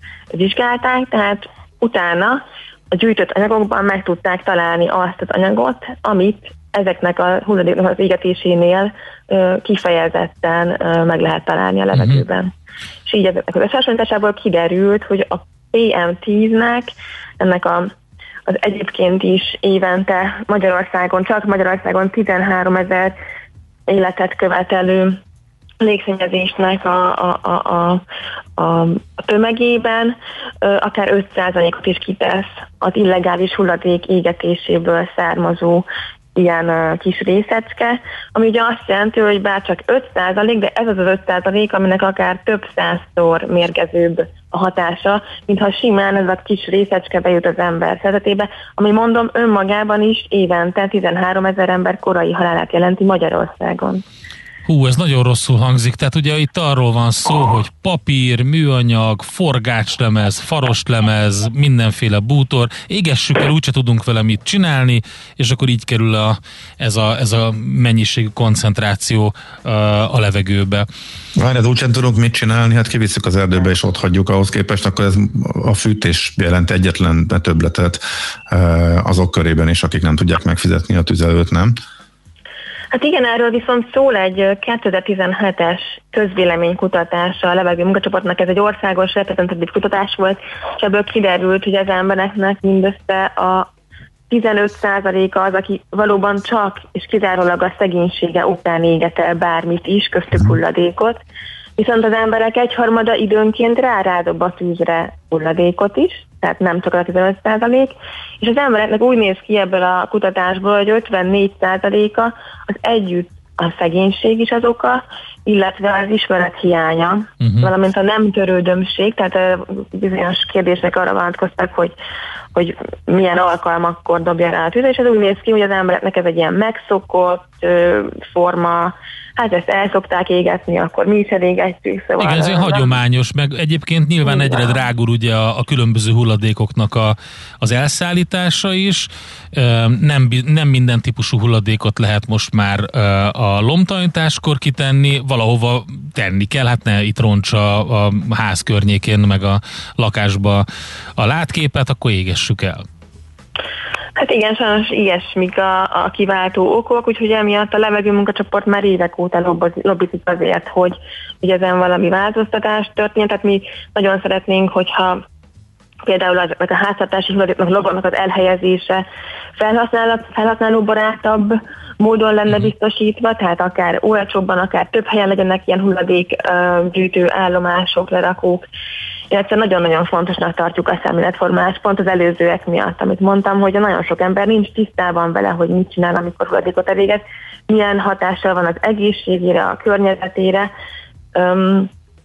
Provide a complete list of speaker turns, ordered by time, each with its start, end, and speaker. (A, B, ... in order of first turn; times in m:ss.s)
0:00.3-0:12.5 A
0:11.9-0:12.2 B
0:13.0-0:17.9 A
0:18.5-0:23.1 A
0:23.9-0:25.2 A
0:25.8-0:28.0 A
0:28.6-0:54.0 A
0:54.6-1:10.9 B
1:11.4-1:21.7 C
1:22.9-1:33.7 A
1:34.3-1:41.2 A
1:41.8-2:01.9 A
1:57.4-1:57.7 B
2:02.5-2:13.0 A
2:12.2-2:30.6 B
2:14.2-2:14.7 A
2:31.2-2:32.8 B
2:34.2-2:45.2 A
2:46.0-2:49.0 A
2:49.6-2:58.6 A
2:59.3-3:10.7 A
3:11.3-3:11.9 A